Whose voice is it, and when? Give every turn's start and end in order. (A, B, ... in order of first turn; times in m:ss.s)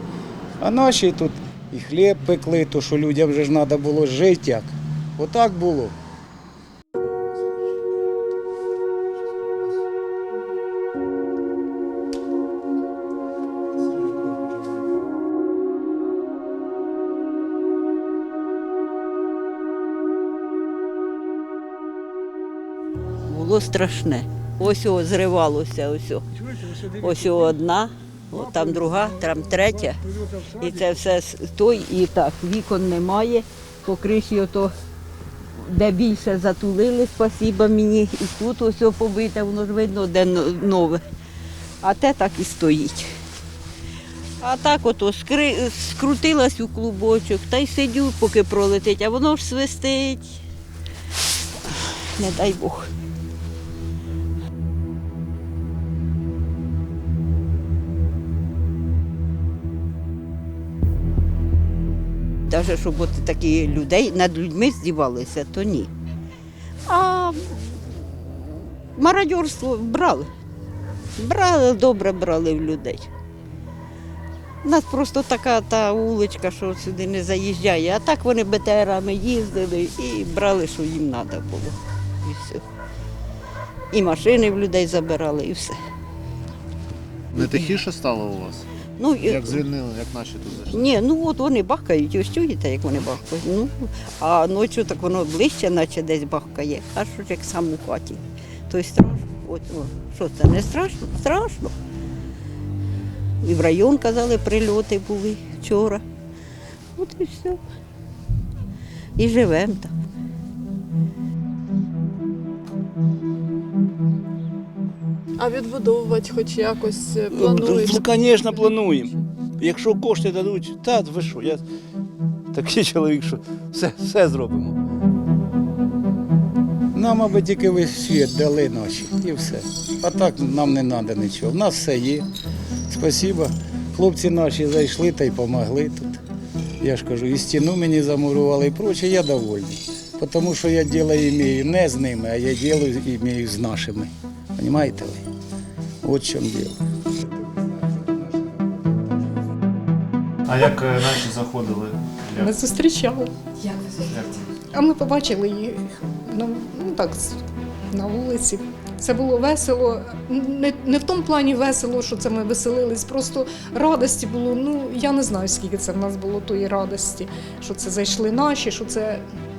0:00.6-0:06.0 A
0:23.3-0:26.2 B
0:26.9-0:34.7 B
0:35.6-0:41.0 B
0:41.8-0:43.1 B
0:44.4-0:50.4 B
0:51.7-0:52.9 B
1:02.5-1:05.9 B
1:06.9-1:07.9 B
1:09.0-1:10.3 B
1:11.2-1:13.1 B
1:14.6-1:22.6 B
1:23.9-1:25.8 B
1:27.3-1:28.7 C
1:27.3-1:27.7 B
1:29.0-1:29.7 B
1:29.2-1:30.8 C
1:30.7-1:41.7 B
1:43.4-1:46.0 B
1:47.0-1:47.6 B
1:49.2-1:49.9 B
1:55.4-1:59.1 D
1:57.3-2:01.6 E
2:02.5-2:04.8 E
2:06.9-2:12.3 A
2:12.9-2:16.2 A
2:16.8-2:25.2 A
2:26.0-2:28.9 A
2:30.4-2:32.5 C
2:32.4-2:33.3 F
2:34.1-2:34.6 C
2:34.7-2:37.4 F
2:37.9-2:49.2 F